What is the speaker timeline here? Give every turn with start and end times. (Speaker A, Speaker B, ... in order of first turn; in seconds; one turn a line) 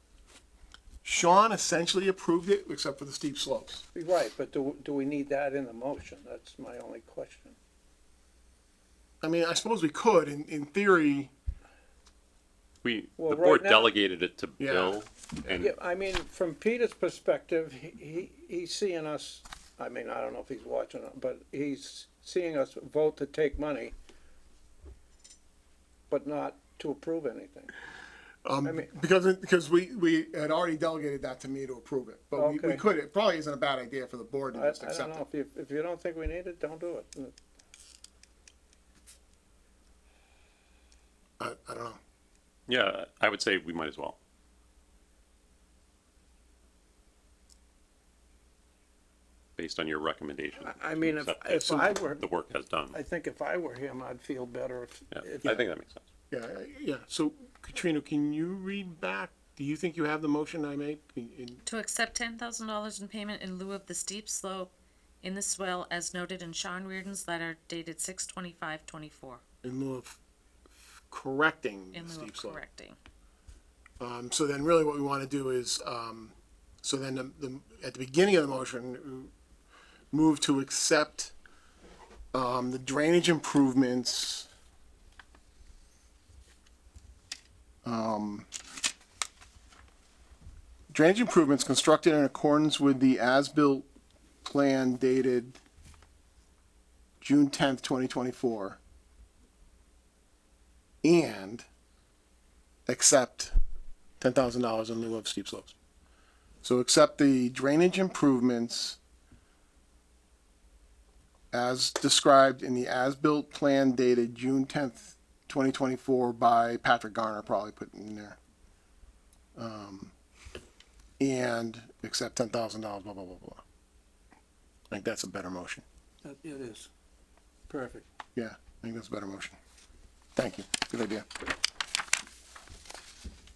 Speaker A: 1.0-3.8
Speaker B: 3.9-7.5
Speaker A: 9.2-11.3
Speaker C: 12.8-15.8
Speaker B: 13.2-13.9
Speaker A: 14.6-15.0
Speaker B: 15.5-23.9
Speaker B: 26.1-27.7
Speaker A: 28.4-35.2
Speaker B: 28.6-28.9
Speaker B: 32.4-32.8
Speaker B: 34.5-37.3
Speaker A: 41.4-42.0
Speaker C: 42.7-44.2
Speaker C: 49.6-53.0
Speaker B: 50.6-52.3
Speaker B: 52.9-55.6
Speaker C: 55.1-56.0
Speaker A: 56.3-61.6
Speaker D: 61.7-69.4
Speaker A: 69.6-70.2
Speaker A: 71.1-72.6
Speaker D: 71.9-73.0
Speaker A: 74.0-79.3
Speaker A: 80.1-81.3
Speaker A: 82.3-84.5
Speaker A: 87.8-88.5
Speaker A: 90.9-93.9
Speaker A: 94.4-95.6
Speaker A: 97.2-98.8
Speaker A: 101.0-101.7
Speaker A: 102.9-103.5
Speaker A: 104.2-105.8
Speaker A: 106.6-109.0
Speaker A: 111.5-118.4
Speaker A: 119.6-120.1
Speaker A: 121.2-123.6
Speaker A: 124.9-125.8
Speaker B: 126.2-126.9
Speaker B: 127.7-128.1
Speaker A: 128.3-129.6
Speaker A: 130.3-131.2